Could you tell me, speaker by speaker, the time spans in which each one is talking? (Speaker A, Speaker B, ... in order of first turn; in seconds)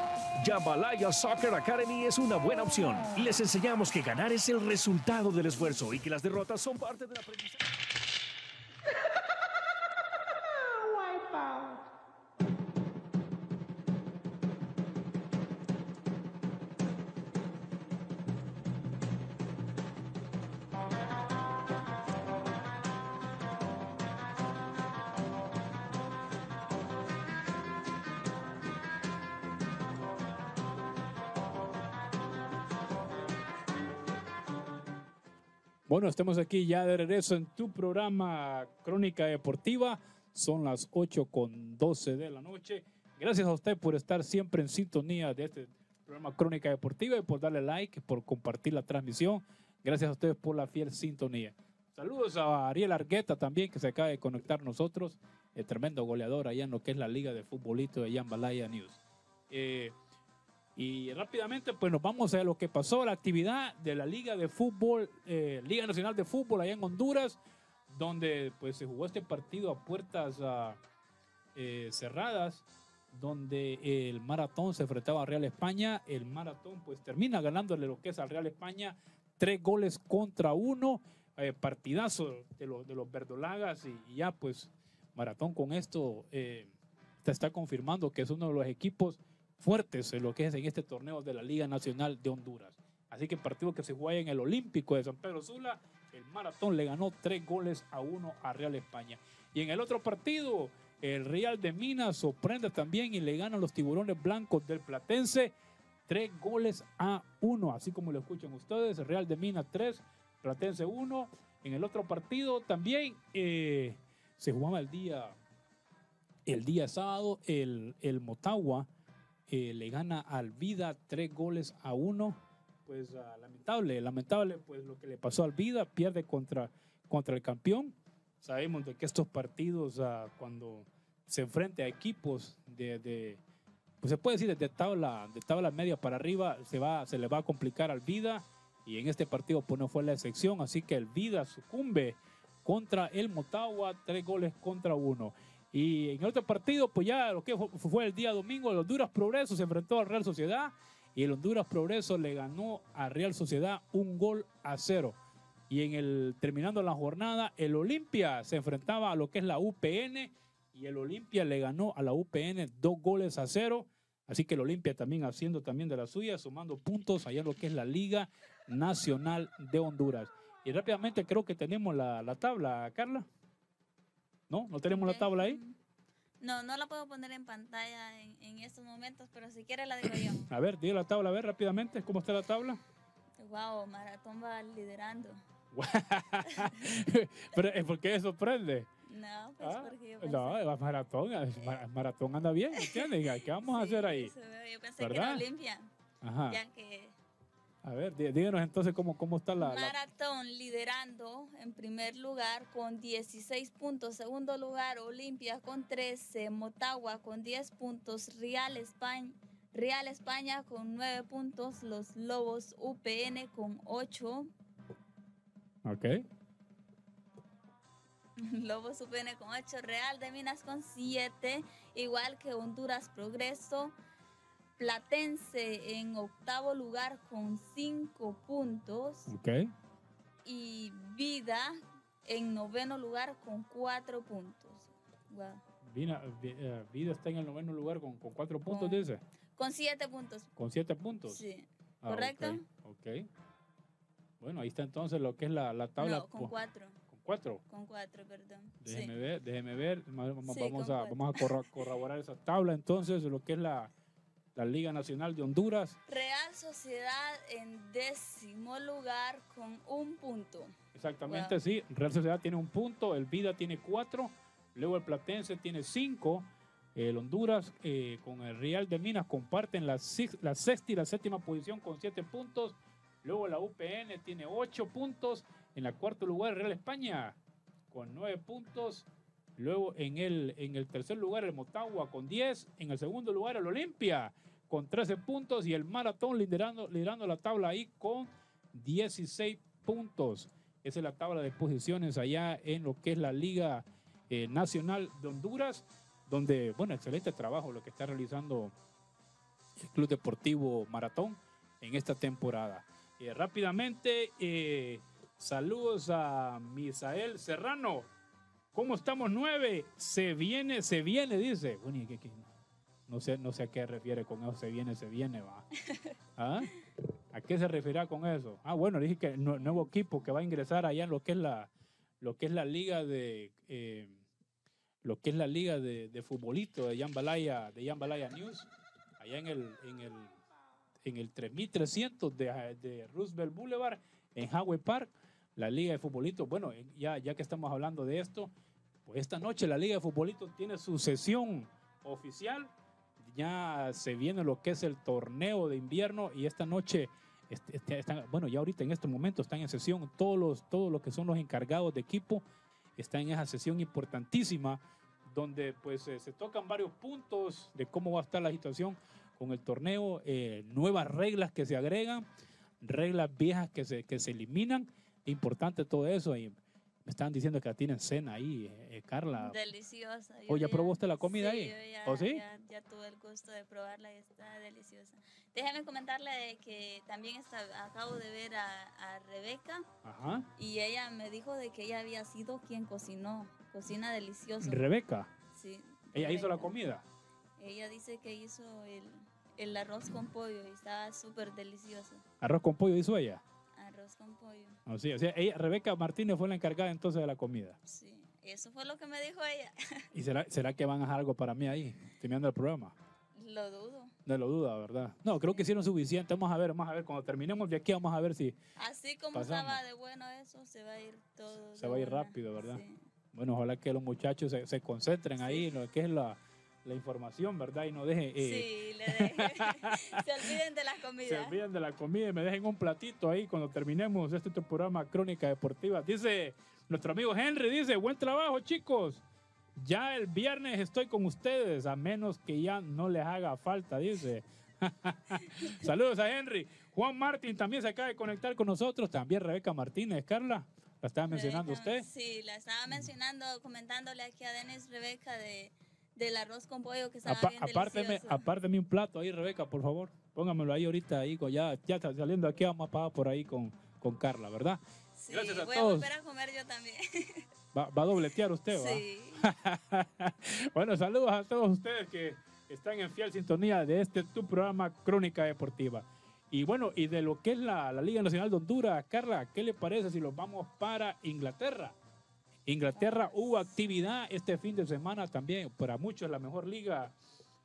Speaker A: 0.4-7.6
Speaker B: 35.9-60.0, 60.8-67.4, 67.9-70.8, 71.5-86.7, 87.2-105.5, 106.1-115.3, 116.5-118.9, 119.5-133.4, 134.0-155.2, 155.7-173.3, 174.5-175.6, 180.1-182.8, 185.7-188.9, 189.6-194.3, 195.0-195.4, 196.2-196.6, 197.8-200.0, 215.8-216.2, 229.3-229.7, 235.8-239.2, 240.6-241.4, 242.0-243.3, 244.4-246.5, 247.1-247.6, 248.8-253.9, 254.6-256.0, 260.9-277.4, 277.9-298.7, 299.8-308.1, 308.7-312.5, 313.1-315.7, 316.4-316.7, 317.3-321.7, 322.2-324.2, 325.0-330.4, 331.1-338.5, 339.1-352.4, 353.0-362.3, 362.8-369.6, 370.5-372.4, 380.0-380.5, 384.6-385.3, 386.1-387.0, 392.4-393.4, 394.9-397.8, 400.1-402.9, 404.3-408.6, 409.3-409.8, 411.8-412.8, 413.3-420.6, 421.2-429.2, 429.8-442.1, 447.3-456.1, 457.7-471.9, 472.7-477.1
Speaker C: 174.9-175.8, 176.4-180.5, 183.4-185.4, 189.1-190.6, 192.8-195.9, 196.5-197.2, 199.6-214.5, 218.4-223.9, 224.8-229.3, 230.4-235.6, 238.7-240.5, 241.3-242.6, 246.0-247.0, 247.7-249.1, 250.4-251.4, 256.1-260.7, 261.3-261.6, 319.6-319.8, 369.4-379.9, 380.6-384.9, 385.5-386.7, 387.6-392.2, 393.8-394.8, 397.9-400.0, 403.4-404.1, 408.8-413.0, 415.4-415.7, 418.4-421.6, 441.3-448.5, 455.2-457.5, 458.7-459.4, 472.9-473.8